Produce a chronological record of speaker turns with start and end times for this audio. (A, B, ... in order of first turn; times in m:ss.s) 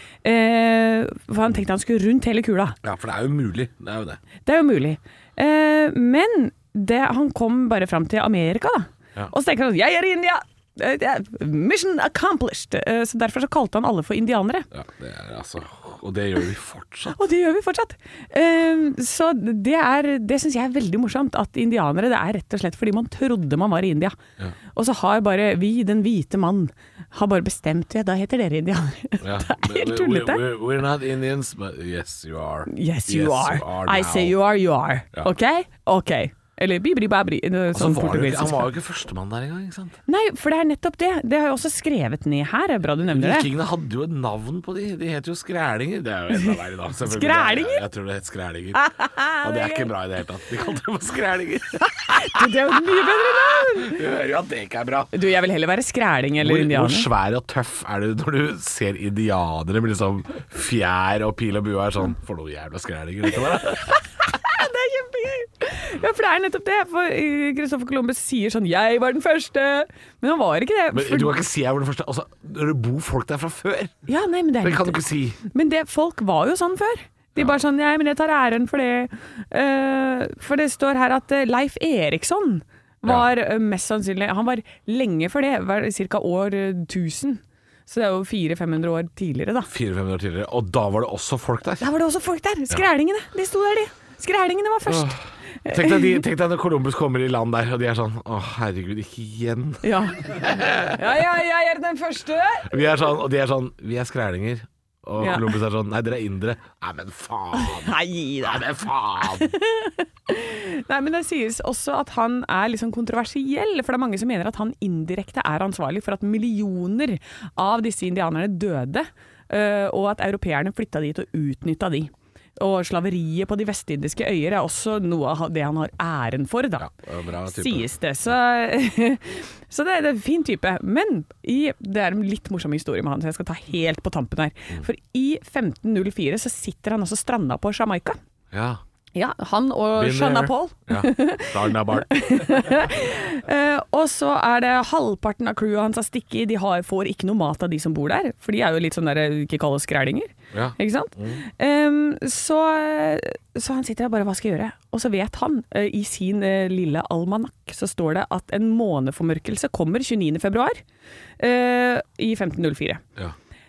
0:00.2-0:02.8 A
0:02.8-0:04.2 B
0:04.4-0:14.7 A
0:14.7-0:17.2 B
0:17.1-0:24.2 A
0:24.7-0:30.4 A
0:29.2-0:34.4 B
0:32.7-0:38.7 A
0:37.7-0:40.0 B
0:40.1-0:43.5 A
0:43.1-0:48.8 B
0:46.3-0:47.8 A
0:48.7-0:49.9 A
0:49.4-0:52.7 B
0:52.0-0:54.0 A
0:53.5-0:55.1 B
0:55.1-0:57.1 A
0:56.4-1:04.0 B
1:04.0-1:11.4 A
1:10.9-1:13.9 B
1:14.1-1:29.7 A
1:14.6-1:15.4 B
1:29.7-1:31.9 B
1:31.8-1:36.2 A
1:34.9-1:35.2 B
1:35.7-1:41.0 B
1:39.8-1:43.0 A
1:42.7-1:47.9 B
1:45.2-1:45.6 A
1:47.5-1:48.6 A
1:48.4-1:49.5 B
1:49.2-2:06.9 A
2:06.8-2:07.9 B
2:07.5-2:18.2 A
2:18.5-2:18.8 B
2:19.2-2:40.8 A
2:20.0-2:22.1 B
2:30.5-2:31.4 B
2:41.4-2:43.0 A